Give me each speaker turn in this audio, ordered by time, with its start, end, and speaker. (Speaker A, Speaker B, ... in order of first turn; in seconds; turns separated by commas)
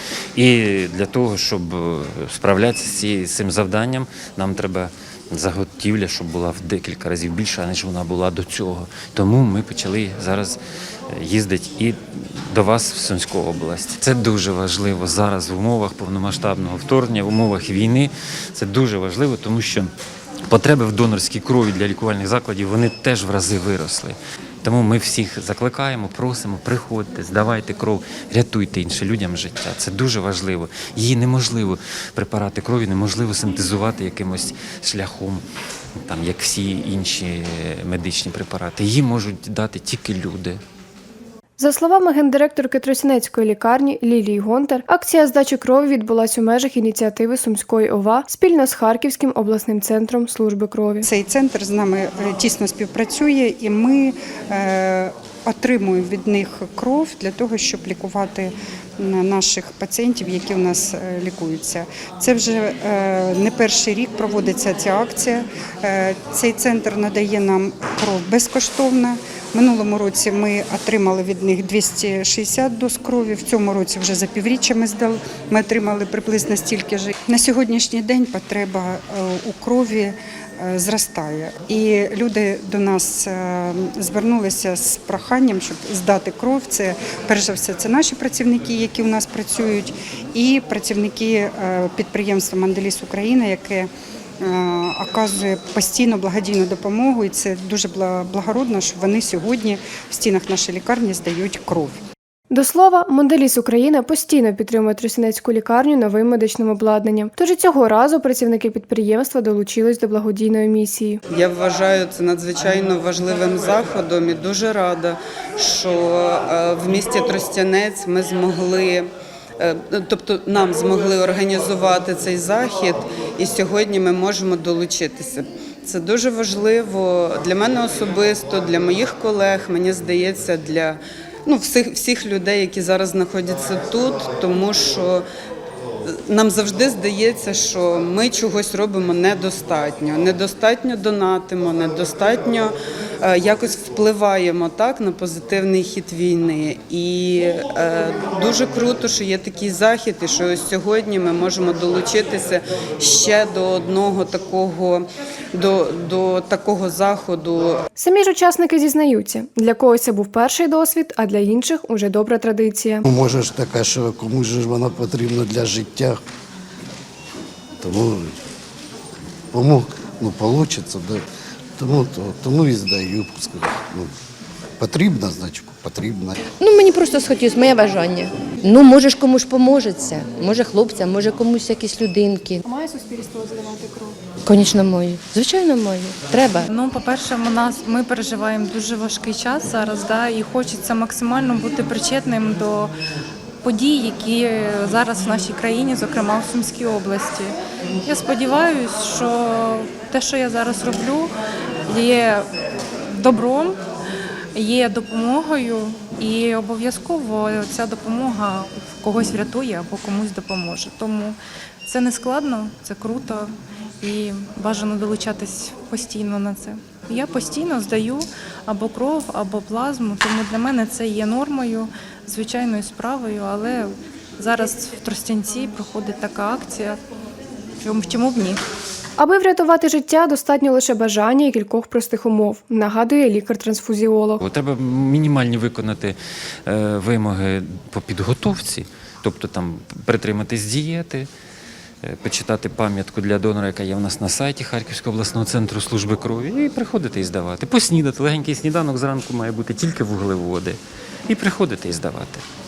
Speaker A: 0.3-10.6, Speaker A: 11.1-19.9, Speaker A: 20.5-35.4, Speaker A: 36.0-40.6, Speaker B: 41.6-51.1, Speaker C: 51.0-93.9, Speaker C: 94.4-102.0, Speaker B: 102.5-111.2, Speaker D: 111.3-135.2, Speaker D: 136.0-157.8, Speaker B: 157.9-163.1, Speaker E: 163.1-166.2, Speaker E: 167.8-168.3, Speaker E: 169.5-171.2, Speaker E: 171.8-174.1, Speaker E: 174.8-176.4, Speaker F: 176.5-182.6, Speaker B: 182.6-184.2, Speaker F: 184.4-186.7, Speaker G: 186.7-192.9, Speaker G: 193.6-197.5, Speaker G: 198.0-201.3, Speaker G: 201.9-202.5, Speaker G: 203.1-203.8, Speaker G: 204.5-227.0, Speaker G: 227.8-228.6, Speaker B: 229.2-234.4, Speaker A: 234.4-241.3, Speaker A: 242.0-252.4